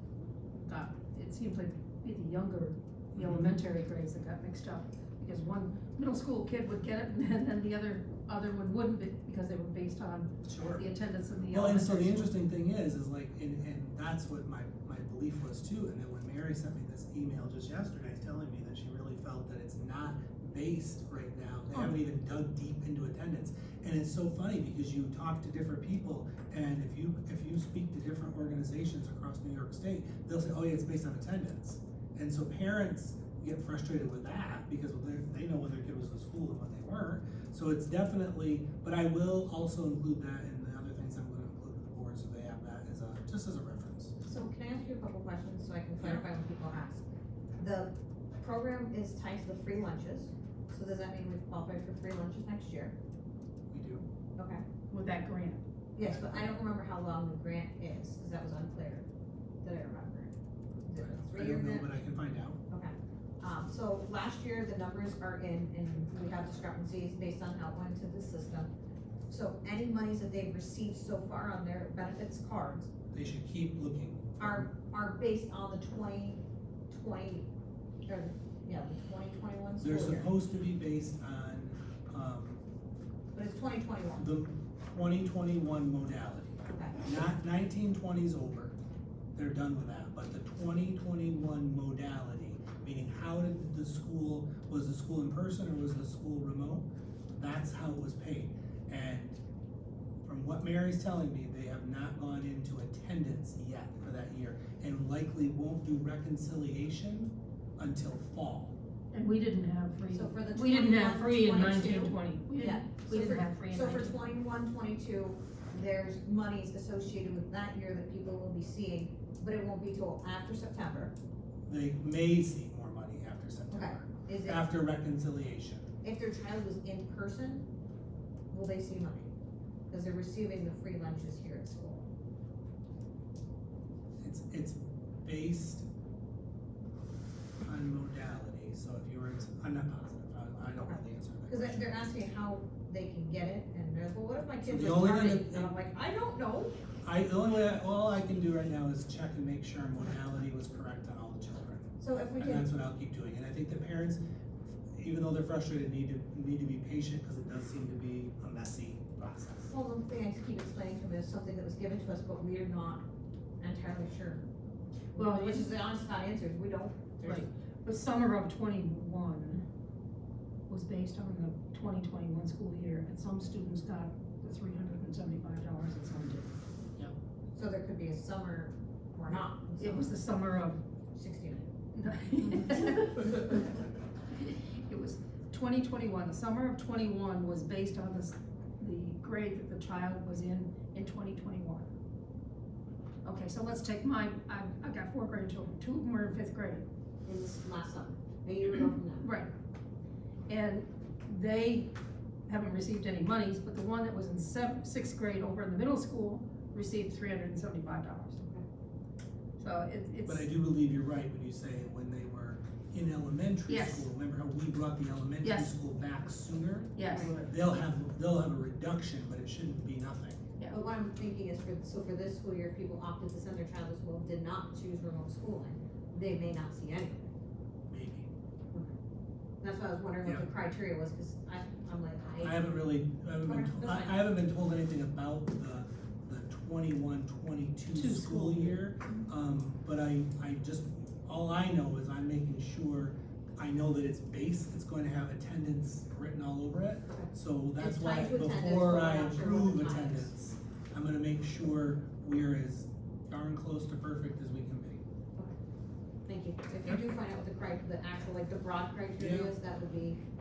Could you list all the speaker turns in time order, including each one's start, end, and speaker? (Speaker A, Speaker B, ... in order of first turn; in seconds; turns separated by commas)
Speaker A: 0.7-12.3, Speaker B: 3.1-3.5, Speaker B: 10.4-10.8, Speaker B: 11.5-44.1, Speaker C: 44.2-47.0, Speaker B: 46.0-46.2, Speaker C: 47.6-53.0, Speaker B: 53.7-54.1, Speaker C: 54.4-54.6, Speaker A: 54.9-55.6, Speaker C: 56.0-59.1, Speaker B: 56.0-56.5, Speaker C: 59.6-60.3, Speaker C: 60.8-61.9, Speaker B: 61.0-62.6, Speaker C: 62.7-68.7, Speaker C: 69.3-72.9, Speaker B: 73.1-74.7, Speaker C: 74.4-77.5, Speaker C: 78.1-80.3, Speaker B: 79.8-82.6, Speaker C: 83.3-84.2, Speaker B: 84.2-88.8, Speaker C: 86.7-87.0, Speaker B: 89.3-99.4, Speaker B: 100.2-108.8, Speaker A: 109.1-114.2, Speaker C: 110.1-121.1, Speaker B: 121.7-125.9, Speaker C: 123.7-124.6, Speaker C: 126.0-127.7, Speaker C: 128.5-129.3, Speaker C: 129.9-132.1, Speaker B: 134.2-135.9, Speaker B: 137.6-141.9, Speaker C: 140.8-146.8, Speaker B: 144.6-145.7, Speaker B: 147.0-154.2, Speaker C: 152.0-152.6, Speaker B: 154.9-159.7, Speaker C: 159.7-163.0, Speaker C: 163.6-164.4, Speaker A: 165.1-165.7, Speaker C: 165.1-167.5, Speaker A: 167.2-169.7, Speaker A: 170.7-176.5, Speaker C: 177.5-180.2, Speaker A: 179.8-180.8, Speaker C: 181.1-181.7, Speaker A: 181.9-183.7, Speaker A: 184.3-191.9, Speaker A: 193.2-196.8, Speaker C: 197.2-199.3, Speaker A: 199.2-199.5, Speaker A: 200.5-201.9, Speaker A: 202.5-208.4, Speaker A: 209.6-210.5, Speaker B: 210.3-220.4, Speaker A: 213.7-214.1, Speaker A: 215.4-215.7, Speaker A: 216.9-217.5, Speaker C: 217.1-217.5, Speaker C: 220.7-227.3, Speaker B: 227.9-228.3, Speaker C: 229.6-232.7, Speaker B: 230.2-230.5, Speaker B: 232.4-255.0, Speaker C: 233.4-234.2, Speaker A: 237.9-238.8, Speaker C: 247.1-250.3, Speaker C: 256.2-260.2, Speaker B: 259.2-259.5